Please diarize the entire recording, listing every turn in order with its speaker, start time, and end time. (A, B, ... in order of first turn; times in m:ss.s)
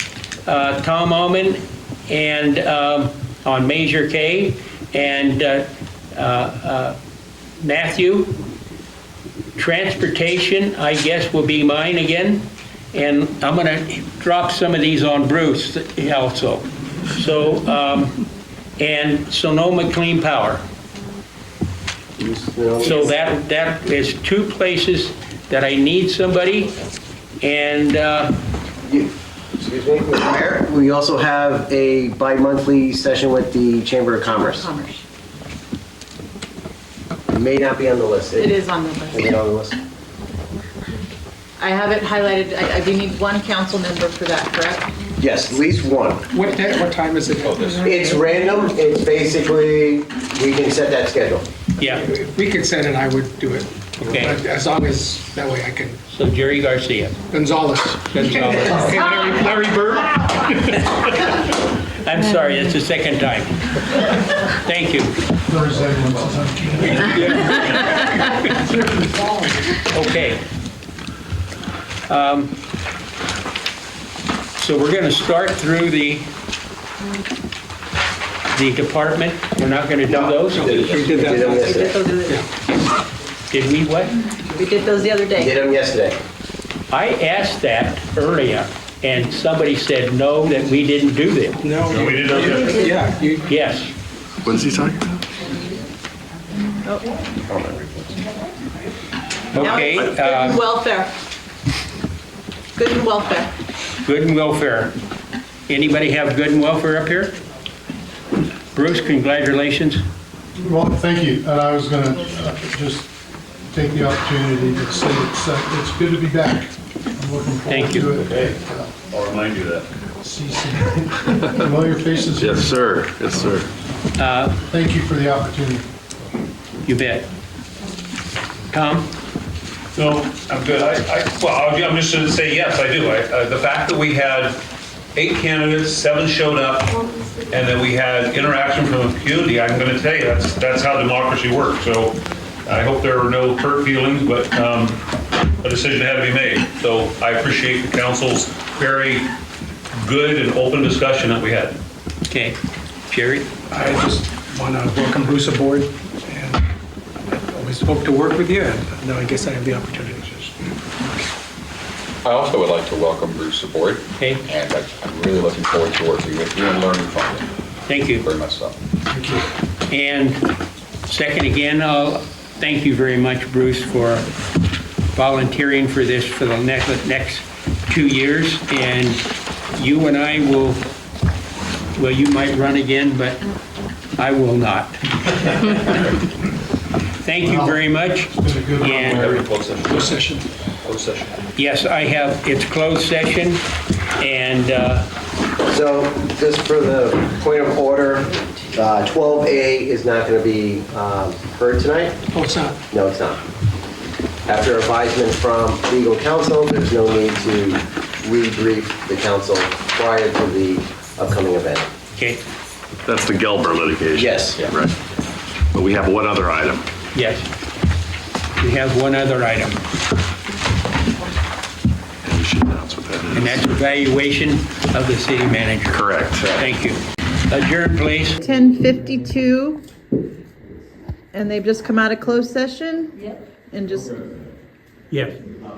0:00.4-0:07.0 A
0:07.6-0:08.4 A
0:09.6-0:18.2 A
0:18.8-0:20.6 A
0:22.2-0:23.2 B
0:22.8-0:26.7 A
0:27.4-0:28.4 A
0:28.8-0:34.7 B
0:34.5-0:35.0 C
0:37.3-0:38.6 B
0:38.4-0:39.3 C
0:39.1-0:39.8 B
0:41.6-0:44.9 C
0:45.2-0:46.2 B
0:46.3-0:47.8 D
0:47.4-0:47.9 E
0:47.8-0:51.4 B
0:51.8-0:52.0 A
0:51.8-0:56.0 D
0:54.0-0:54.4 A
0:56.1-0:57.2 A
0:57.3-1:01.1 D
0:58.1-0:58.9 A
1:01.9-1:05.2 A
1:05.5-1:07.1 F
1:07.1-1:08.2 A
1:07.1-1:07.7 D
1:09.0-1:09.4 D
1:09.8-1:10.4 A
1:12.1-1:12.5 A
1:14.6-1:16.3 A
1:18.5-1:21.0 A
1:20.1-1:22.0 B
1:20.6-1:22.4 D
1:21.4-1:22.4 C
1:23.5-1:24.2 A
1:24.5-1:25.5 C
1:25.4-1:26.2 B
1:26.9-1:31.6 A
1:31.6-1:33.5 D
1:31.8-1:33.0 G
1:33.4-1:33.9 A
1:34.4-1:35.2 H
1:37.5-1:38.1 H
1:39.5-1:40.6 A
1:39.5-1:41.1 C
1:42.8-1:43.5 C
1:44.0-1:45.0 A
1:45.7-1:47.3 A
1:48.7-1:50.0 A
1:50.6-1:53.1 F
1:53.7-1:59.0 F
1:57.7-1:58.1 A
1:58.1-1:58.5 G
1:59.1-1:59.9 G
2:00.2-2:02.9 F
2:02.4-2:03.7 H
2:04.2-2:04.6 A
2:04.7-2:05.8 F
2:06.8-2:07.3 A
2:08.7-2:09.1 A
2:10.0-2:14.6 G
2:15.1-2:25.0 G
2:25.6-2:29.3 G
2:29.9-2:31.8 G
2:32.3-2:32.6 A
2:33.1-2:33.5 A
2:33.7-2:36.6 D
2:37.3-2:40.7 D
2:42.2-2:47.5 E
2:44.2-2:44.4 A
2:47.9-2:48.3 A
2:48.0-2:48.8 E
2:49.9-2:50.4 A
2:51.1-2:54.3 A
2:55.1-2:59.2 A
2:59.7-3:00.8 A
3:01.9-3:03.4 A
3:04.2-3:05.8 A
3:07.2-3:09.4 A
3:07.4-3:09.5 F
3:08.9-3:10.1 E
3:09.8-3:10.5 D
3:10.8-3:11.3 E
3:11.6-3:13.6 A
3:14.2-3:15.0 A
3:15.6-3:22.2 B
3:22.3-3:22.8 D
3:22.9-3:23.4 B
3:24.4-3:31.8 B
3:32.2-3:32.4 A
3:33.0-3:34.9 H
3:34.1-3:34.7 B
3:35.7-3:36.8 H
3:37.1-3:37.4 A
3:38.6-3:39.8 A
3:42.2-3:43.7 H
3:43.3-3:48.4 A
3:45.9-3:46.7 H
3:48.4-3:49.8 C
3:51.3-3:54.2 C
3:55.1-3:55.4 A